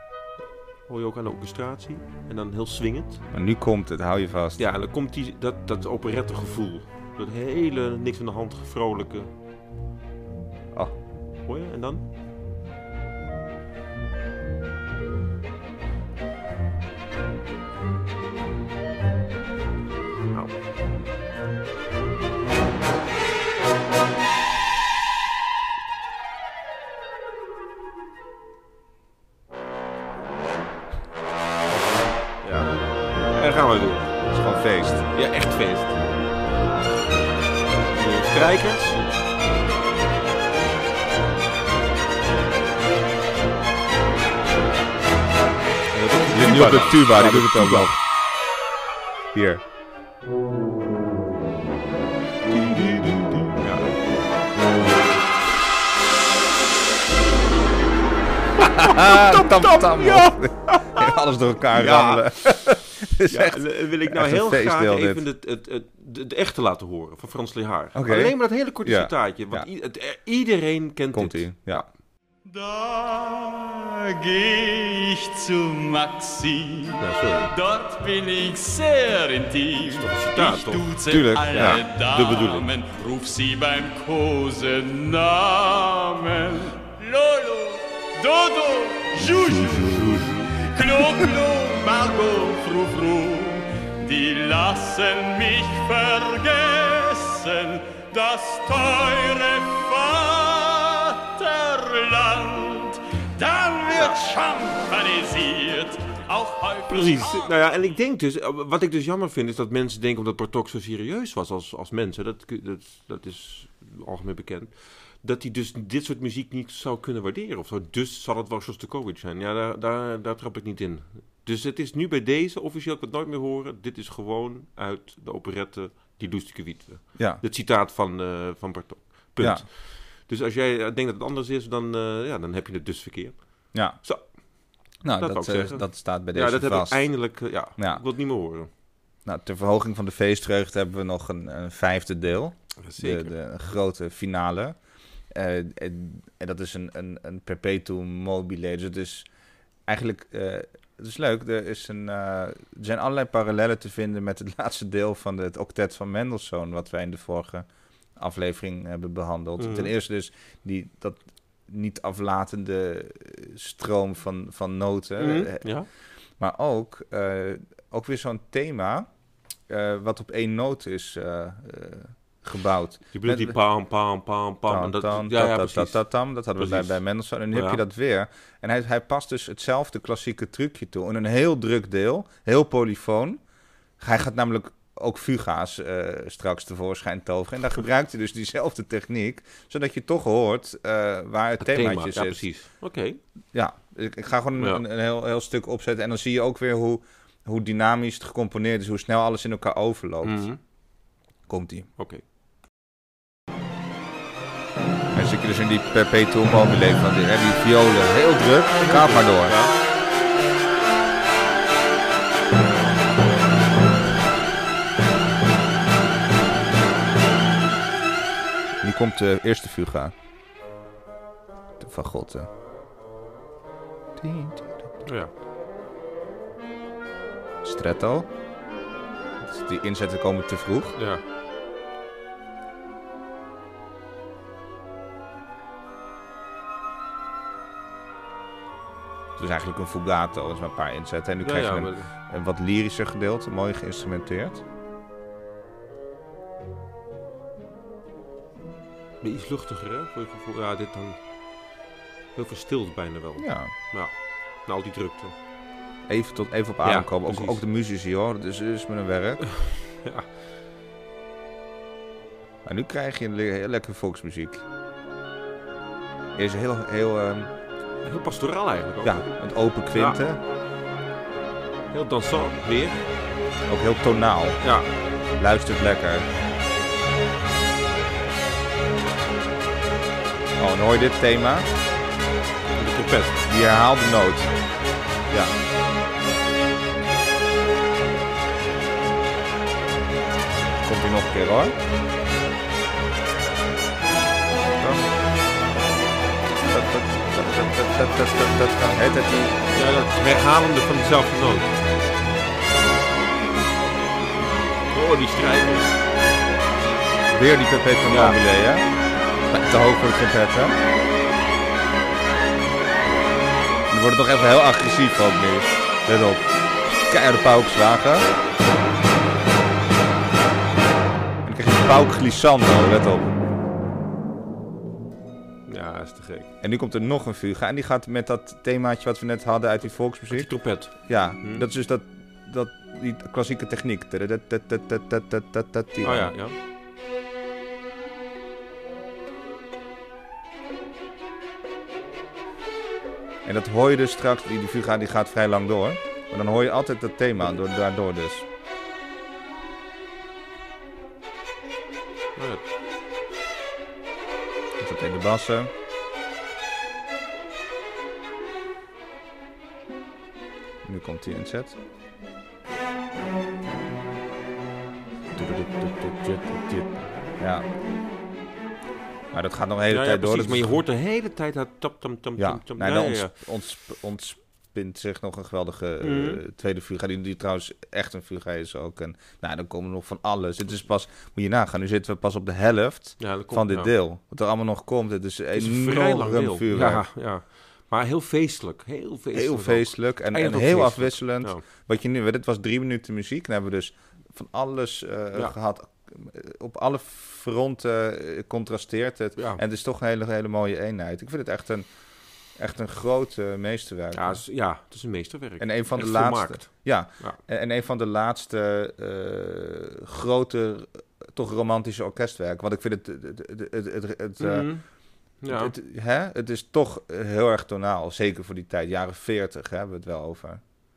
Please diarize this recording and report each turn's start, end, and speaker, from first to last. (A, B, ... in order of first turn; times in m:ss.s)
0:00.9-0:03.2 A
0:03.3-0:04.6 B
0:04.6-0:09.3 A
0:11.5-0:12.0 A
0:31.7-0:34.2 A
0:34.3-0:35.0 B
0:35.1-0:36.0 A
0:37.9-0:39.0 A
0:45.9-0:47.9 A
0:46.3-0:48.0 B
0:49.3-0:49.6 B
0:52.6-0:53.9 A
0:58.6-1:05.2 B
0:58.7-1:01.1 A
1:01.7-1:11.8 A
1:08.0-1:09.7 B
1:11.1-1:11.9 B
1:12.4-1:47.5 C
1:17.0-1:17.5 A
1:19.8-1:21.0 A
1:21.1-1:21.8 B
1:21.5-1:22.7 A
1:29.4-1:30.5 A
1:46.9-2:14.2 A
2:07.2-2:07.4 B
2:09.4-2:09.7 B
2:13.7-2:14.0 B
2:15.0-2:17.0 B
2:15.2-2:18.7 A
2:19.2-2:24.8 B
2:22.8-2:23.3 A
2:25.3-2:29.3 B
2:29.9-2:37.7 B
2:38.2-2:45.6 B
2:39.6-2:39.9 A
2:45.2-2:45.9 A
2:46.4-2:49.1 B
2:49.7-2:53.6 B
2:53.1-2:56.0 A
2:54.7-3:03.4 B
2:56.6-2:57.8 A
3:04.0-3:12.4 B
3:11.6-3:13.2 A
3:13.5-3:20.4 B
3:14.6-3:14.8 A
3:20.2-3:20.6 A
3:21.5-3:21.9 B
3:22.0-3:22.2 A
3:25.1-3:29.6 B
3:28.8-3:29.8 A
3:38.8-3:40.1 B
3:41.8-3:42.5 B
3:44.2-3:44.9 B
3:45.0-3:45.3 A
3:47.6-3:48.3 B
3:49.4-3:51.0 B
3:51.0-3:51.2 A
3:59.4-4:04.6 B
4:01.4-4:02.1 A
4:09.2-4:11.2 A
4:12.4-4:15.4 A
4:13.4-4:13.7 B
4:16.1-4:19.4 B
4:16.8-4:17.6 A
4:19.4-4:20.3 A
4:22.6-4:24.6 B
4:26.4-4:27.5 B
4:28.0-4:29.3 A
4:29.0-4:30.4 B
4:29.9-4:30.2 A
4:31.9-4:33.0 A
4:33.7-4:34.6 B
4:34.6-4:34.9 A
4:35.4-4:36.3 B
4:40.6-4:41.7 B
4:42.8-4:43.4 A
4:43.5-4:44.5 B
4:50.8-4:51.8 B
4:54.8-4:55.1 B
4:56.6-4:59.6 B
4:59.7-5:01.7 A
5:04.9-5:06.0 A
5:07.3-5:08.9 B
5:08.1-5:08.4 A
5:09.5-5:10.8 B
5:13.9-5:16.5 B
5:17.1-5:18.3 B
5:21.4-5:23.4 B
5:25.7-5:26.5 A
5:26.6-5:36.3 B
5:30.3-5:31.7 A
5:36.0-5:36.6 A
5:43.4-5:48.5 B
5:52.4-5:52.7 A
5:54.8-5:55.7 B
6:00.8-6:01.8 B
6:05.4-6:07.1 A
6:07.4-6:07.7 B
6:09.3-6:10.8 B
6:09.9-6:13.4 A
6:12.4-6:27.0 B
6:16.0-6:16.4 A
6:23.2-6:23.9 A
6:25.5-6:31.6 A
6:29.3-6:41.9 B
6:39.4-6:39.6 A
6:42.6-6:44.4 B
6:44.1-6:47.4 A
6:45.6-6:54.7 B
6:54.4-6:54.8 A
6:55.4-6:55.8 A
6:55.5-7:00.6 B